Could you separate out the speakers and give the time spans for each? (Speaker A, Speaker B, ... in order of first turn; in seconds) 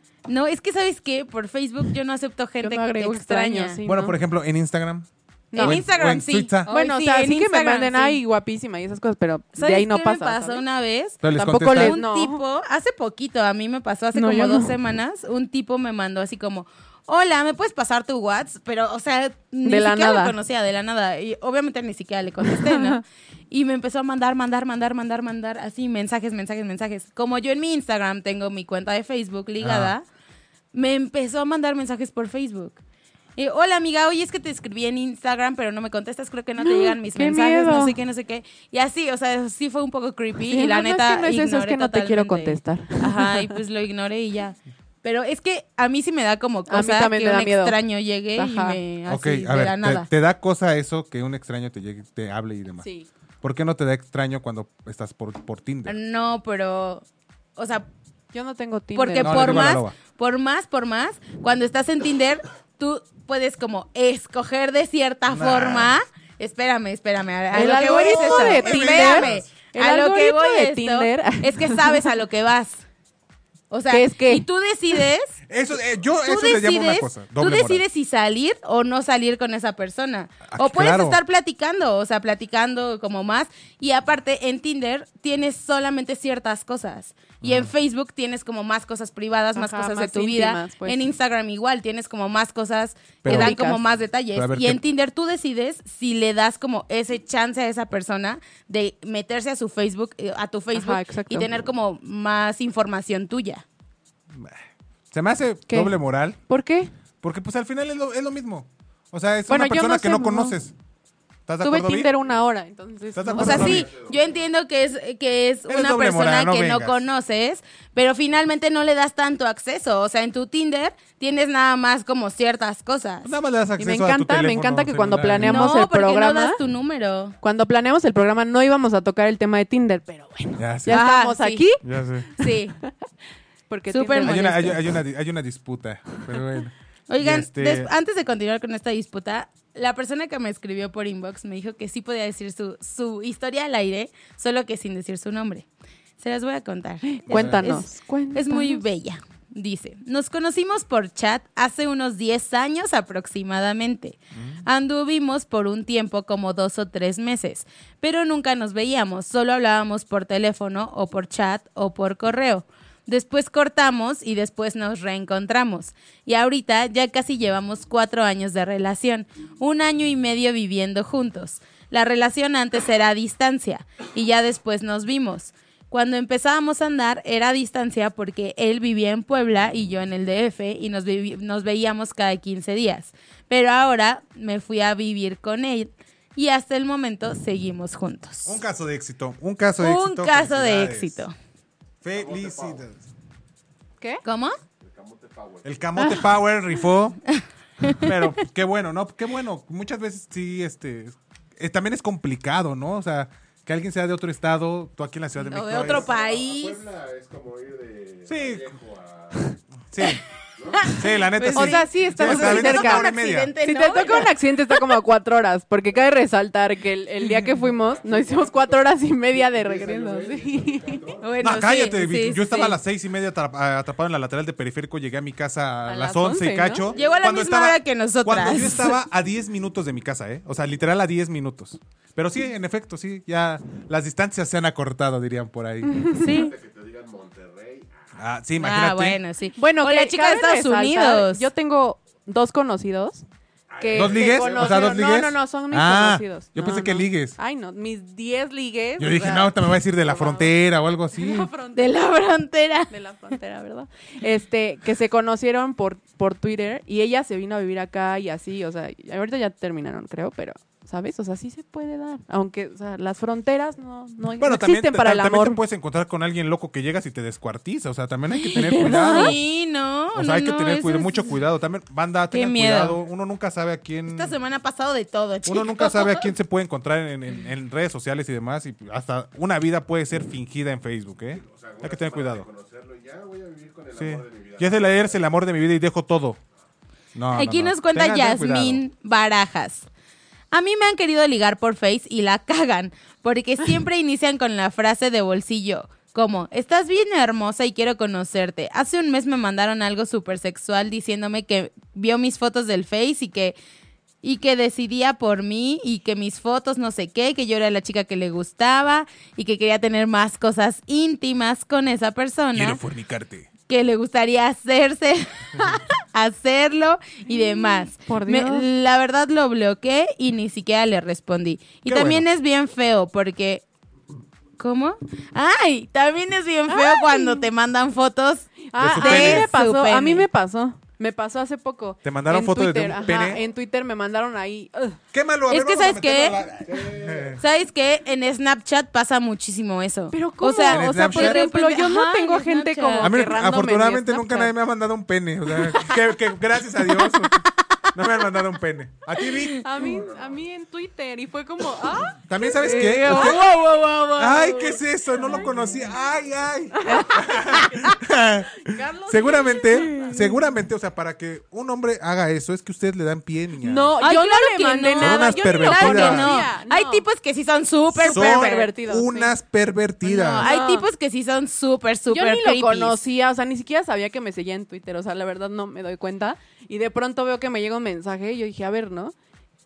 Speaker A: 0.2-3.8, 5.5-8.2, 9.6-30.0, 30.7-32.8, 33.4-50.1, 55.9-57.0, 57.5-57.9, 58.9-72.8, 73.7-75.3, 76.2-103.6, 113.4-123.3, 125.4-127.3, 130.9-131.6, 132.4-132.8, 133.9-134.7, 137.1-145.7, 146.2-188.6, 189.8-191.3, 194.2-194.6, 197.3-198.1, 205.4-206.8, 210.8-214.9, 221.2-222.8, 226.9-228.9, 236.1-236.5, 238.6-241.5, 251.7-252.9, 268.4-271.3, 272.3-273.0, 274.1-276.3, 287.3-289.9, 290.5-303.6, 304.2-312.8, 313.7-323.6, 324.6-330.3, 335.5-336.4, 337.4-343.1, 352.7-354.4, 359.7-360.1, 364.0-368.7, 370.0-373.0
Speaker B: 2.6-4.2, 5.5-5.8, 6.7-10.6, 11.3-12.4, 14.1-14.8, 19.6-20.4, 22.5-23.0, 36.6-38.0, 40.5-43.5, 46.7-47.8, 48.4-48.8, 52.8-53.1, 58.3-59.8, 67.5-72.1, 73.9-74.5, 89.5-91.0, 93.3-93.8, 100.7-101.5, 105.7-106.9, 109.5-110.6, 111.6-113.8, 123.8-126.6, 127.4-131.8, 132.4-132.9, 133.7-134.8, 147.0-148.8, 211.5-213.1, 213.6-221.1, 225.9-226.8, 235.9-236.3, 239.6-243.2, 243.8-250.5, 251.1-252.0, 252.9-265.6, 268.5-269.3, 317.3-318.7, 326.7-327.5, 328.7-335.0, 340.1-344.5, 349.6-355.7, 356.7-360.4, 363.6-367.0, 368.0-369.3, 370.4-370.9, 372.1-379.1
Speaker C: 3.9-6.7, 11.2-12.0, 29.6-29.9, 49.1-52.9, 53.4-56.0, 59.2-59.9, 65.3-65.9, 67.8-69.5, 75.5-77.8, 80.5-81.2, 87.4-87.7, 93.2-93.5, 94.3-94.8, 104.3-106.4, 107.2-110.7, 111.5-112.1, 113.1-113.9, 115.7-117.0, 123.2-125.7, 130.6-131.0, 131.8-132.3, 134.2-137.9, 147.3-147.7, 154.3-154.6, 188.4-191.2, 192.0-193.0, 195.6-197.2, 198.0-206.1, 208.3-208.7, 209.9-210.2, 210.9-213.5, 221.4-236.0, 238.1-239.2, 243.9-247.3, 249.0-251.5, 264.4-269.4, 270.1-274.3, 275.4-282.5, 283.9-286.4, 287.1-288.8, 312.5-313.5, 321.9-322.2, 328.8-329.5, 332.0-333.4, 335.1-337.4, 340.7-341.4, 343.0-349.6, 352.2-353.5, 354.2-363.9, 365.0-366.4, 368.0-370.5
Speaker D: 113.3-114.5, 192.1-192.8, 194.8-195.9, 205.7-209.5, 210.6-211.0, 217.5-221.6, 226.8-227.3, 236.0-238.2, 243.7-245.2, 281.3-285.2, 336.6-337.4, 349.8-350.5